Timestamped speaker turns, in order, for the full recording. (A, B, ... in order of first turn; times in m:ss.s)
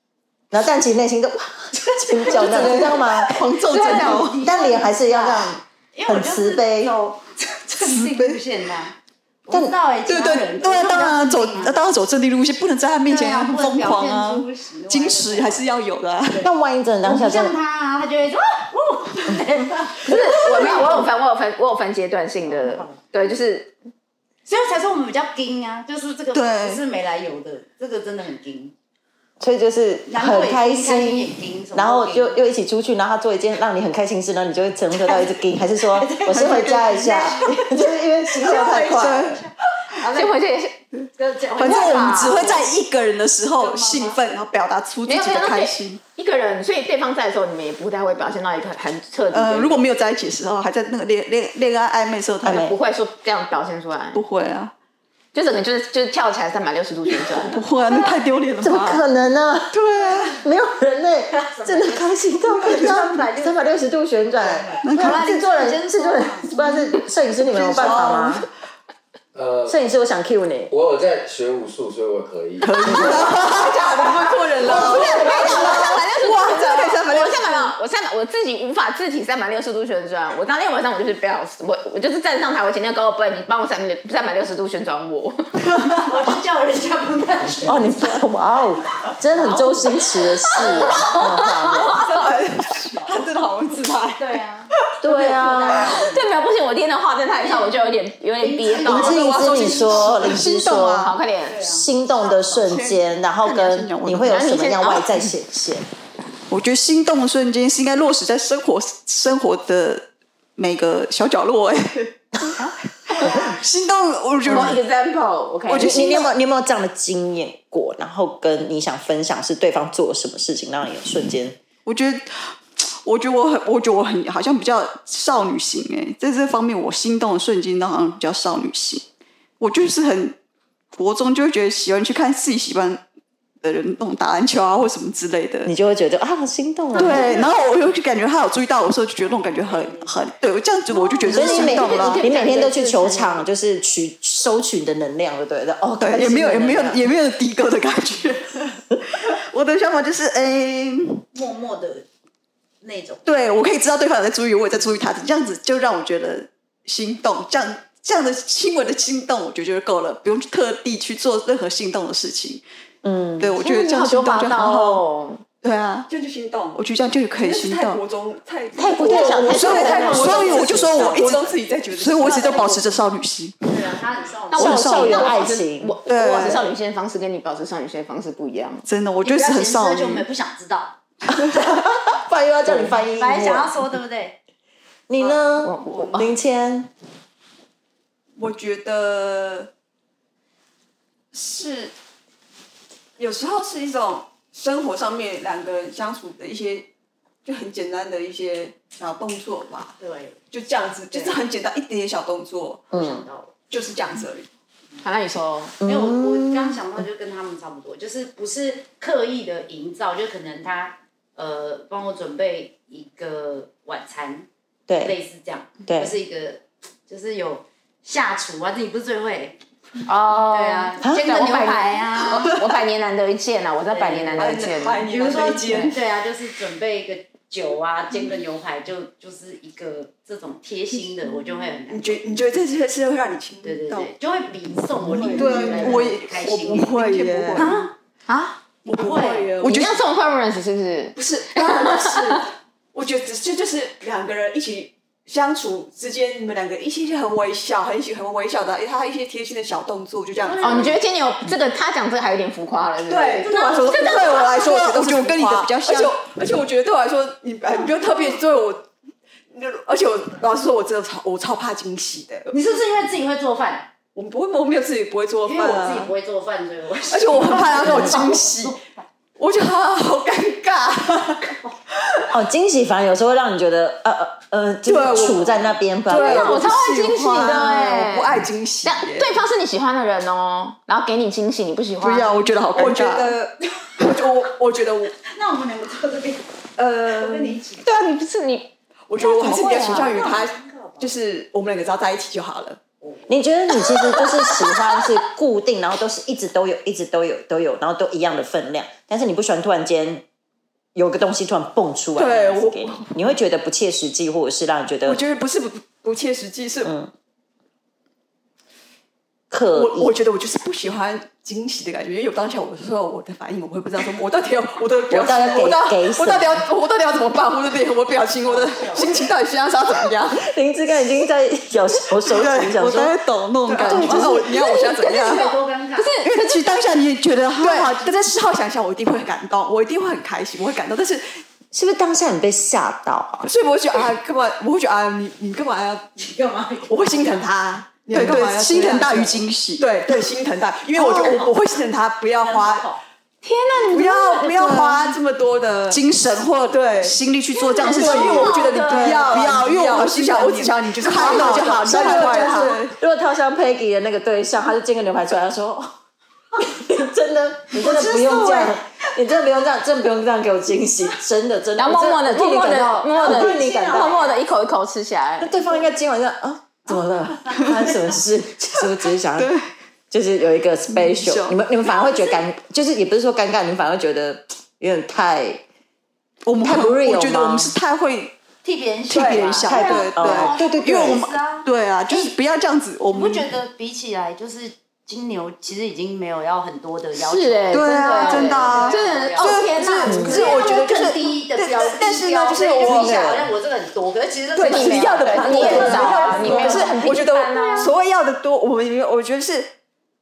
0:00.5-0:06.9 A
0:02.3-0:04.4 B
0:02.4-0:02.8 C
0:02.5-0:03.0 D
0:03.7-0:11.9 C
0:07.9-0:08.4 B
0:10.1-0:16.5 B
0:13.1-0:15.7 C
0:16.4-0:17.6 A
0:17.0-0:21.1 C
0:20.0-0:23.7 E
0:22.5-0:23.0 C
0:24.5-0:28.7 C
0:26.3-0:26.8 B
0:29.4-0:39.4 A
0:30.1-0:32.4 C
0:35.8-0:37.5 C
0:36.4-0:37.3 B
0:38.4-0:39.4 B
0:38.5-0:40.3 C
0:40.2-0:40.8 E
0:41.0-0:46.0 B
0:41.2-0:42.7 C
0:41.6-0:42.4 E
0:43.6-0:44.2 C
0:45.1-0:49.8 E
0:49.3-0:52.7 B
0:52.4-0:52.8 A
0:52.4-0:54.2 E
0:54.1-0:54.7 B
0:55.3-0:57.6 E
0:57.4-0:59.0 B
0:58.6-0:59.8 A
0:59.7-1:00.4 B
1:00.4-1:08.4 A
1:01.3-1:03.8 C
1:02.6-1:02.9 B
1:04.4-1:06.5 C
1:04.8-1:05.2 B
1:07.5-1:08.4 B
1:09.3-1:09.8 F
1:09.7-1:10.7 A
1:10.7-1:12.7 F
1:12.6-1:17.7 B
1:12.9-1:16.1 D
1:14.6-1:25.4 E
1:25.9-1:28.2 C
1:27.7-1:32.0 A
1:29.3-1:31.6 C
1:31.0-1:31.3 E
1:31.9-1:32.4 D
1:32.2-1:32.9 B
1:33.0-1:34.2 D
1:34.2-1:36.2 C
1:35.0-1:36.0 A
1:36.0-1:39.3 E
1:37.4-1:37.8 C
1:38.4-1:40.4 C
1:38.8-1:45.9 A
1:39.2-1:41.1 B
1:41.0-1:41.6 E
1:41.5-1:41.9 C
1:42.2-1:44.4 B
1:42.5-1:42.8 C
1:44.3-1:45.3 E
1:46.5-1:54.8 B
1:54.5-1:56.2 E
1:55.7-1:56.3 B
1:55.8-2:01.6 A
2:01.9-2:09.1 B
2:09.6-2:10.4 B
2:10.9-2:13.0 B
2:13.6-2:15.7 B
2:15.6-2:17.3 A
2:17.0-2:22.2 B
2:19.2-2:20.2 C
2:21.2-2:23.4 E
2:21.3-2:27.0 A
2:26.0-2:31.2 B
2:31.3-2:32.1 C
2:32.8-2:33.3 C
2:33.2-2:42.6 B
2:43.0-2:43.5 A
2:43.4-2:45.0 B
2:43.6-2:45.4 E
2:45.6-2:46.1 B
2:46.1-2:46.8 D
2:46.8-2:48.0 B
2:47.4-2:52.8 D
2:48.8-2:51.4 E
2:49.0-2:50.6 A
2:49.5-2:53.7 B
2:52.0-2:52.9 C
2:53.7-2:55.3 C
2:54.5-2:58.9 E
2:54.6-2:56.0 A
2:54.6-2:55.3 B
2:56.1-2:56.7 B
2:58.9-3:00.3 B
2:59.2-3:01.0 C
3:01.3-3:01.7 B
3:01.5-3:03.9 A
3:03.2-3:04.4 C
3:05.1-3:06.9 A
3:05.6-3:06.3 E
3:08.4-3:09.7 D
3:11.3-3:11.9 D
3:13.2-3:16.9 D
3:17.4-3:20.0 D
3:20.0-3:20.4 C
3:20.5-3:22.9 D
3:21.1-3:21.4 C
3:22.9-3:23.2 A
3:22.9-3:23.5 C
3:23.7-3:24.5 D
3:25.0-3:25.8 E
3:25.8-3:27.0 A
3:25.8-3:39.6 C
3:34.9-3:35.1 A
3:35.9-3:36.1 A
3:40.1-3:45.1 E
3:40.5-3:42.6 C
3:43.9-3:52.3 C
3:44.4-3:46.0 D
3:51.9-3:54.1 D
3:53.6-3:57.9 C
3:55.1-3:57.9 D
3:55.2-3:57.7 B
3:58.3-3:58.6 E
3:58.8-4:00.0 D
3:58.9-3:59.6 C
3:59.6-4:02.4 E
3:59.6-4:00.0 B
4:01.2-4:11.0 D
4:10.3-4:11.0 C
4:10.6-4:14.5 E
4:13.0-4:18.9 D
4:13.3-4:14.5 C
4:14.3-4:16.2 B
4:19.5-4:22.5 D
4:22.5-4:23.9 C
4:24.1-4:26.1 D
4:25.4-4:28.8 C
4:27.1-4:28.8 D
4:29.4-4:32.3 D
4:32.3-4:36.6 A
4:34.9-4:35.5 D
4:36.1-4:39.4 D
4:36.2-4:42.4 E
4:42.0-4:43.4 B
4:42.7-4:45.2 D
4:43.8-4:44.1 C
4:45.2-4:46.5 C
4:46.8-4:47.6 D
4:47.0-4:47.9 C
4:47.8-4:48.7 E
4:49.1-4:52.8 D
4:49.2-4:51.1 C
4:49.3-4:50.2 E
4:53.0-4:53.3 C
4:53.3-5:00.2 A
5:01.0-5:05.2 A
5:02.2-5:03.4 D
5:05.0-5:06.9 D
5:06.8-5:07.1 A
5:09.5-5:10.2 A
5:09.7-5:20.4 D
5:15.1-5:16.7 A
5:18.4-5:19.1 C
5:20.4-5:23.2 A
5:22.2-5:24.5 B
5:23.7-5:25.5 D
5:23.8-5:24.5 A
5:24.6-5:26.8 E
5:24.8-5:26.1 C
5:26.2-5:28.0 B
5:27.6-5:31.4 D
5:31.7-5:33.5 A
5:33.4-5:36.1 D
5:36.2-5:37.5 C
5:36.9-5:42.9 D
5:38.1-5:39.9 B
5:38.1-5:38.4 C
5:41.0-5:41.7 C
5:42.3-5:43.0 C
5:43.4-5:44.4 E
5:43.9-5:46.0 D
5:44.0-5:45.1 B
5:45.9-5:52.9 B
5:46.7-5:47.2 D
5:47.5-5:49.4 E
5:47.8-5:52.8 D
5:51.2-5:55.9 A
5:56.6-6:04.2 A
6:01.8-6:05.5 E
6:03.1-6:04.4 C
6:05.4-6:09.5 A
6:06.8-6:08.2 C
6:09.4-6:09.7 B
6:10.1-6:15.6 A
6:10.9-6:11.6 B
6:11.9-6:12.4 C
6:16.4-6:18.4 B
6:16.6-6:17.8 A
6:18.6-6:22.3 C
6:19.1-6:23.5 B
6:19.1-6:19.6 D
6:19.6-6:21.2 A
6:23.1-6:29.7 C
6:27.2-6:30.8 E
6:27.7-6:33.4 B
6:30.1-6:30.4 A
6:30.1-6:30.9 D
6:30.2-6:37.0 C
6:32.8-6:33.4 A
6:32.9-6:33.3 D
6:34.6-6:39.7 D
6:34.6-6:37.9 E
6:37.5-6:37.9 C